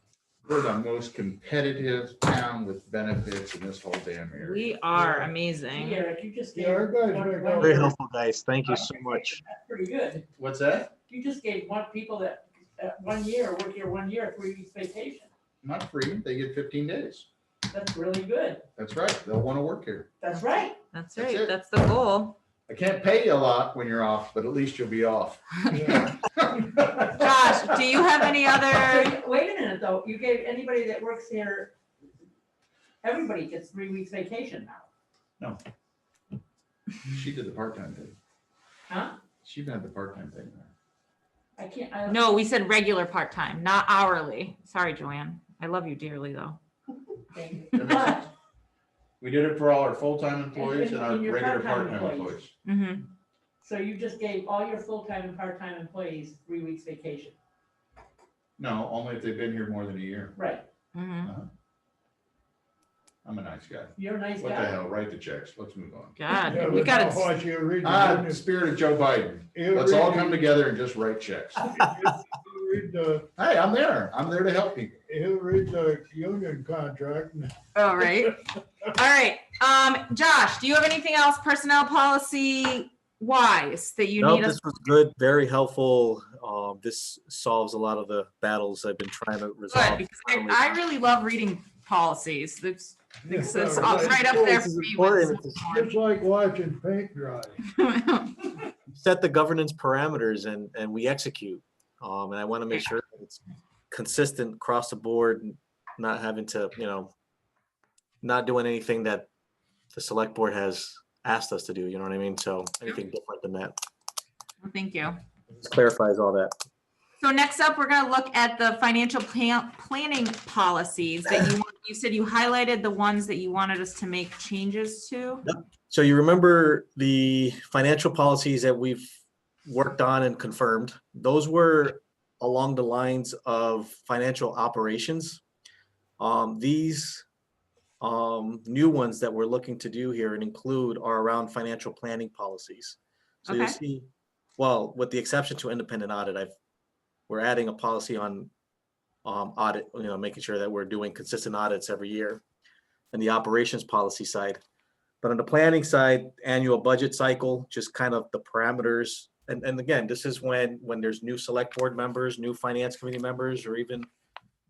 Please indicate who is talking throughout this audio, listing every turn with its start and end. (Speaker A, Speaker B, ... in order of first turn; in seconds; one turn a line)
Speaker A: 0.4-4.7
Speaker B: 4.4-6.1
Speaker C: 5.0-7.9
Speaker D: 6.5-7.9
Speaker E: 7.6-9.4
Speaker C: 8.6-10.2
Speaker A: 10.3-10.9
Speaker C: 11.1-15.3
Speaker A: 15.6-17.3
Speaker C: 17.7-18.6
Speaker A: 18.8-20.1
Speaker C: 20.2-20.7
Speaker B: 20.3-22.4
Speaker A: 21.1-21.5
Speaker A: 22.7-27.5
Speaker D: 25.7-26.1
Speaker B: 27.0-29.1
Speaker C: 28.7-31.7
Speaker C: 33.0-34.9
Speaker A: 37.0-38.1
Speaker C: 38.9-39.1
Speaker A: 39.4-40.7
Speaker C: 41.6-42.2
Speaker B: 42.1-46.6
Speaker C: 47.3-48.2
Speaker A: 47.7-48.2
Speaker A: 49.2-52.5
Speaker C: 50.5-52.3
Speaker B: 52.6-53.0
Speaker C: 53.6-57.4
Speaker A: 58.6-60.3
Speaker C: 60.4-60.6
Speaker B: 60.9-61.3
Speaker A: 63.2-66.2
Speaker C: 64.0-64.7
Speaker B: 66.2-67.3
Speaker D: 66.3-68.4
Speaker A: 67.8-71.7
Speaker D: 69.5-70.5
Speaker D: 71.6-73.3
Speaker A: 73.3-75.0
Speaker D: 75.1-77.5
Speaker B: 77.7-84.6
Speaker E: 84.2-90.8
Speaker B: 89.7-95.9
Speaker D: 93.2-94.6
Speaker E: 94.1-95.6
Speaker D: 95.7-97.6
Speaker B: 97.7-98.5
Speaker E: 98.9-107.1
Speaker E: 108.2-109.3
Speaker E: 109.9-113.7
Speaker B: 114.6-115.2
Speaker E: 115.5-116.5
Speaker B: 117.2-125.5
Speaker E: 125.4-135.4
Speaker E: 136.2-137.2
Speaker E: 138.0-143.0
Speaker B: 143.5-143.8
Speaker E: 143.5-146.5
Speaker E: 147.3-148.5
Speaker E: 149.2-152.4
Speaker E: 153.1-154.6
Speaker E: 155.2-164.1